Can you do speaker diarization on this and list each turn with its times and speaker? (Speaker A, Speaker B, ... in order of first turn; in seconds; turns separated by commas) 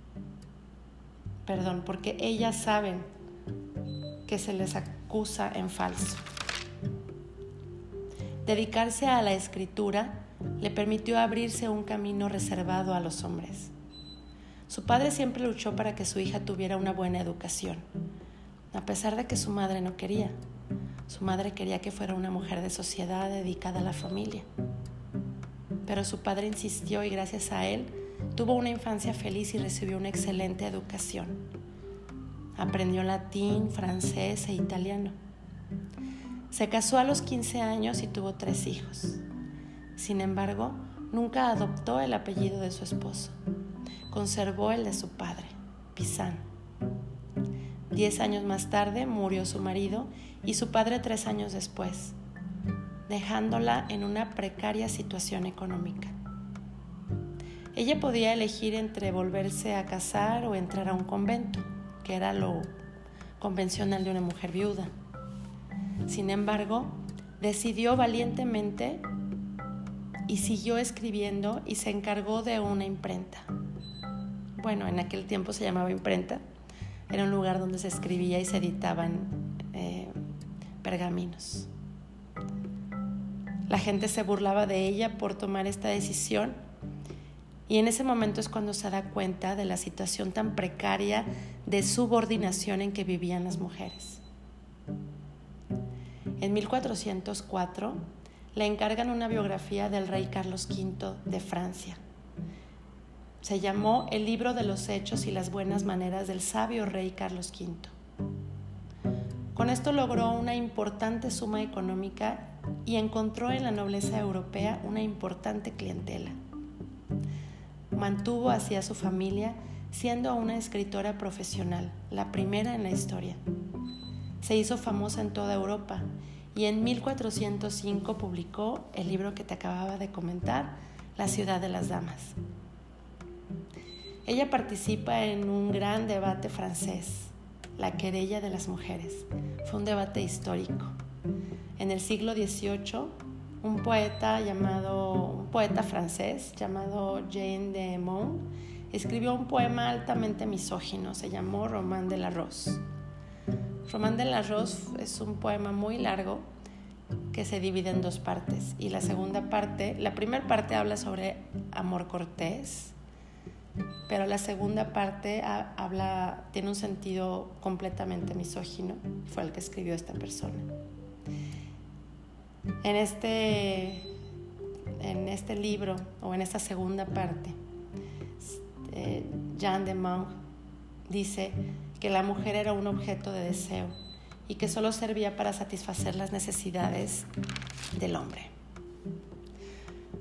Speaker A: 1.5-3.0, Speaker A: 4.3-6.2, Speaker A: 8.4-13.7, Speaker A: 14.7-17.9, Speaker A: 18.7-20.4, Speaker A: 21.1-24.5, Speaker A: 25.9-31.4, Speaker A: 32.6-35.2, Speaker A: 36.5-39.2, Speaker A: 40.0-43.4, Speaker A: 44.1-46.4, Speaker A: 47.9-52.1, Speaker A: 53.1-56.1, Speaker A: 57.7-62.7, Speaker A: 63.4-64.9, Speaker A: 66.1-69.0, Speaker A: 70.3-73.5, Speaker A: 74.6-76.4, Speaker A: 77.1-80.2, Speaker A: 80.8-81.7, Speaker A: 83.7-86.6, Speaker A: 87.7-94.2, Speaker A: 96.4-102.0, Speaker A: 103.4-107.9, Speaker A: 109.5-116.4, Speaker A: 117.9-123.4, Speaker A: 124.4-132.4, Speaker A: 134.2-140.9, Speaker A: 141.8-152.8, Speaker A: 153.9-156.5, Speaker A: 157.3-162.9, Speaker A: 164.1-170.7, Speaker A: 172.8-174.1, Speaker A: 175.0-177.6, Speaker A: 178.4-180.4, Speaker A: 181.1-183.9, Speaker A: 184.5-187.3, Speaker A: 187.9-188.5